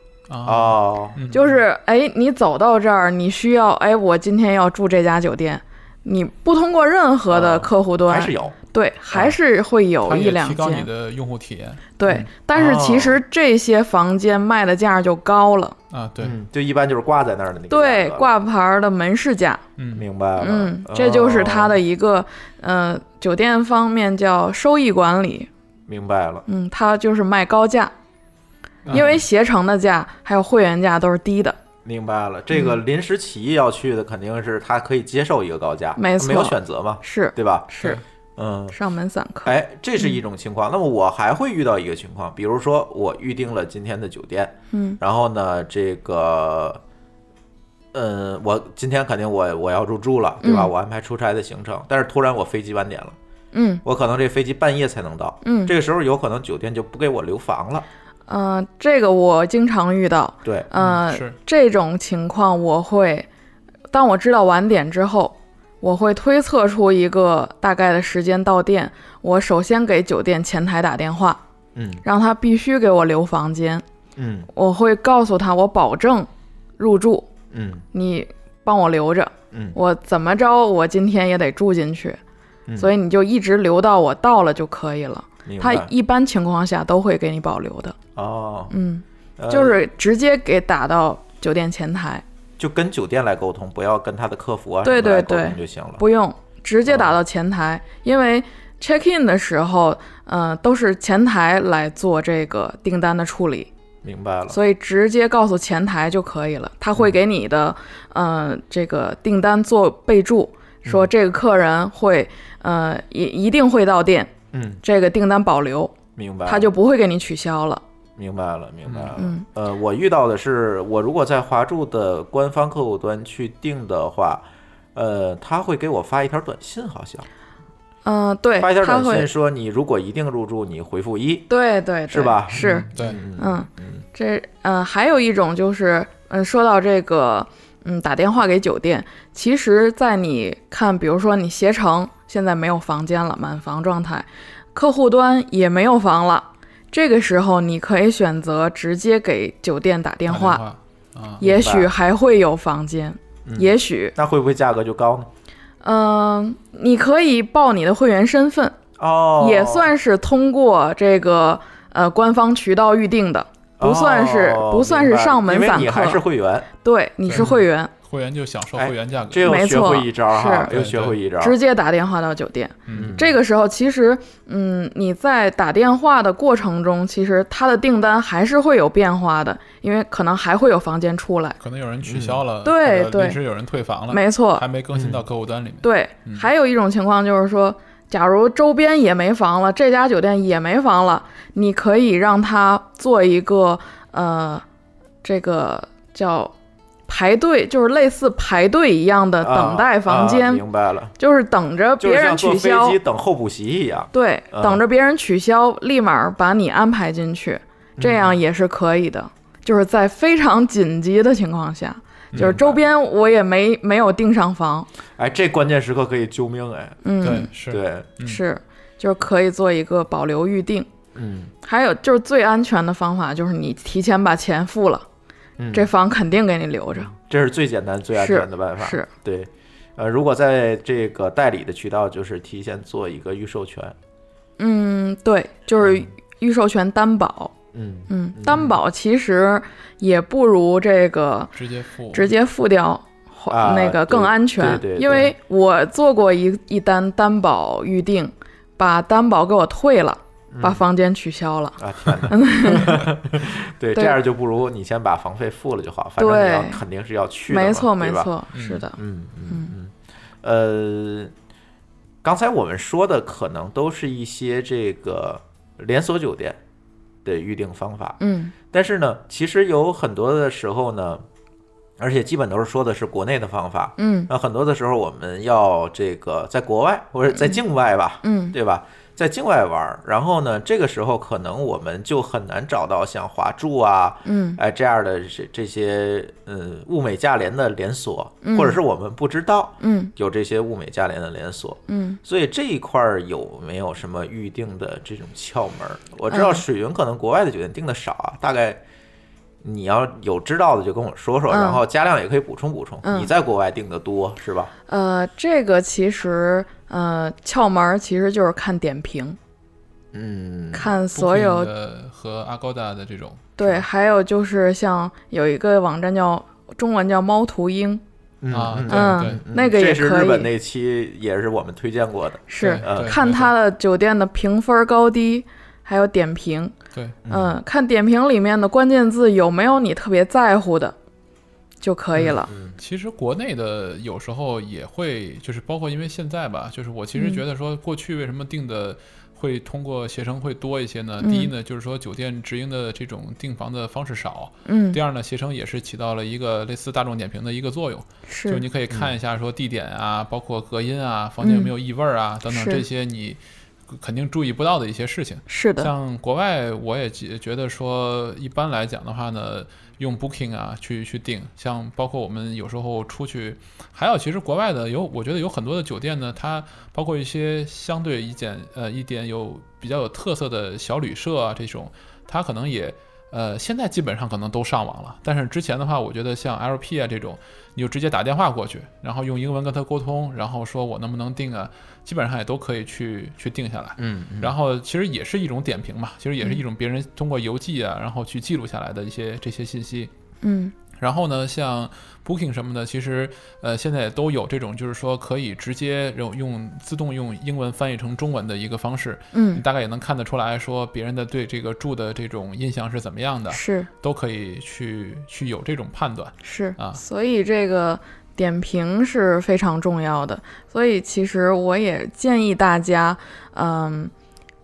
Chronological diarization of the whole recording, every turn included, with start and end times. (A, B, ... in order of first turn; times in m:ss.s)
0:00.3-0:01.6 A
0:00.4-0:01.2 B
0:01.3-0:10.9 C
0:07.3-0:08.6 B
0:10.0-0:12.2 A
0:12.0-0:15.8 C
0:12.1-0:13.2 B
0:15.9-0:16.4 A
0:16.2-0:18.3 B
0:17.7-0:19.6 C
0:19.8-0:20.1 A
0:19.9-0:21.8 B
0:20.4-0:25.5 C
0:25.9-0:26.5 B
0:26.5-0:27.9 C
0:28.9-0:29.2 A
0:28.9-0:29.2 B
0:28.9-0:31.6 C
0:31.8-0:37.7 B
0:36.0-0:38.0 C
0:38.4-0:38.8 B
0:38.7-0:40.2 C
0:39.4-0:46.8 B
0:44.7-0:45.0 C
0:47.9-0:53.2 B
0:50.4-0:50.7 C
0:53.5-0:53.8 C
0:53.8-0:57.9 B
0:55.4-0:55.7 C
0:58.3-1:03.3 C
1:00.4-1:00.7 B
1:00.8-1:01.4 A
1:03.9-1:11.4 C
1:11.8-1:12.0 B
1:12.0-1:13.8 C
1:14.2-1:14.5 B
1:14.5-1:17.3 C
1:17.5-1:17.8 B
1:17.9-1:22.2 C
1:19.5-1:19.8 B
1:22.8-1:28.0 C
1:25.4-1:25.9 B
1:28.2-1:28.7 B
1:28.7-1:32.2 C
1:29.4-1:29.8 B
1:32.6-1:36.0 B
1:34.8-1:43.7 C
1:36.9-1:37.2 B
1:44.0-1:44.6 B
1:44.5-1:54.3 C
1:50.8-1:51.1 B
1:54.5-1:54.8 B
1:54.8-1:55.9 C
1:56.2-1:56.7 B
1:56.5-1:57.8 C
1:58.2-2:07.3 B
1:59.2-1:59.4 C
2:08.0-2:09.3 C
2:08.6-2:11.5 B
2:11.5-2:30.6 C
2:12.1-2:14.0 B
2:12.9-2:13.2 A
2:30.3-2:31.4 A
2:31.4-2:31.9 B
2:31.4-2:34.2 C
2:33.4-2:35.3 B
2:35.8-2:38.8 C
2:39.0-2:39.9 B
2:39.4-2:46.2 C
2:43.8-2:46.7 B
2:46.8-2:47.9 C
2:47.3-2:49.7 A
2:48.8-2:51.6 B
2:49.4-2:50.7 C
2:50.7-2:51.2 A
2:51.4-3:01.6 C
2:52.9-2:53.2 A
2:52.9-2:53.4 B
3:01.6-3:06.5 A
3:02.0-3:02.4 B
3:02.6-3:03.4 C
3:04.1-3:04.6 C
3:04.9-3:05.2 B
3:05.8-3:14.6 C
3:15.2-3:16.5 C
3:17.1-3:20.6 C
3:19.4-3:21.1 B
3:21.2-3:23.0 C
3:22.0-3:24.8 B
3:24.1-3:34.9 C
3:28.0-3:28.4 B
3:32.3-3:32.6 A
3:32.3-3:32.8 B
3:35.2-3:37.0 B
3:37.0-3:37.5 C
3:37.2-3:38.4 A
3:37.7-3:38.1 B
3:38.2-3:40.9 C
3:41.2-3:41.5 B
3:41.6-3:45.0 C
3:45.6-3:45.9 B
3:45.7-3:47.1 C
3:47.0-3:54.0 B
3:48.2-3:49.1 C
3:54.6-3:57.5 C
3:55.8-3:56.1 B
3:57.7-3:58.7 B
3:58.1-4:01.5 C
4:01.6-4:02.3 A
4:02.1-4:13.1 C
4:03.5-4:05.3 B
4:10.5-4:10.8 B
4:11.8-4:18.3 B
4:16.2-4:16.8 C
4:17.5-4:19.0 C
4:18.5-4:18.8 A
4:19.0-4:21.3 B
4:22.2-4:26.6 B
4:27.2-4:28.2 B
4:28.2-4:28.5 C
4:28.7-4:31.2 B
4:32.0-4:58.8 B
4:34.0-4:34.3 C
4:37.3-4:37.6 C
4:38.2-4:38.6 C
4:44.2-4:44.6 C
4:48.4-4:48.8 C
4:49.8-4:50.1 C
4:51.9-4:52.2 C
4:56.3-4:56.6 C
4:59.6-5:04.7 B
5:01.5-5:01.8 C
5:03.0-5:03.3 C
5:04.9-5:09.4 C
5:10.1-5:10.9 B
5:10.7-5:11.7 C
5:11.1-5:13.8 A
5:13.6-5:18.0 C
5:18.4-5:23.2 B
5:18.5-5:19.4 A
5:18.9-5:20.5 C
5:22.5-5:26.7 C
5:22.6-5:23.5 A
5:26.9-5:27.2 A
5:27.2-5:27.6 B
5:27.3-5:31.0 C
5:31.8-5:32.5 C
5:32.2-5:32.8 B
5:32.8-6:30.1 A
5:37.2-5:37.4 C
5:41.2-5:41.5 C
5:44.7-5:45.0 C
5:48.3-5:48.6 C
5:51.4-5:51.7 C
5:52.5-5:52.8 C
5:55.5-5:55.9 C
6:24.0-6:24.6 B
6:30.4-6:30.7 C
6:31.0-6:47.0 A
6:39.3-6:39.6 C
6:43.5-6:43.9 C
6:46.4-6:54.1 C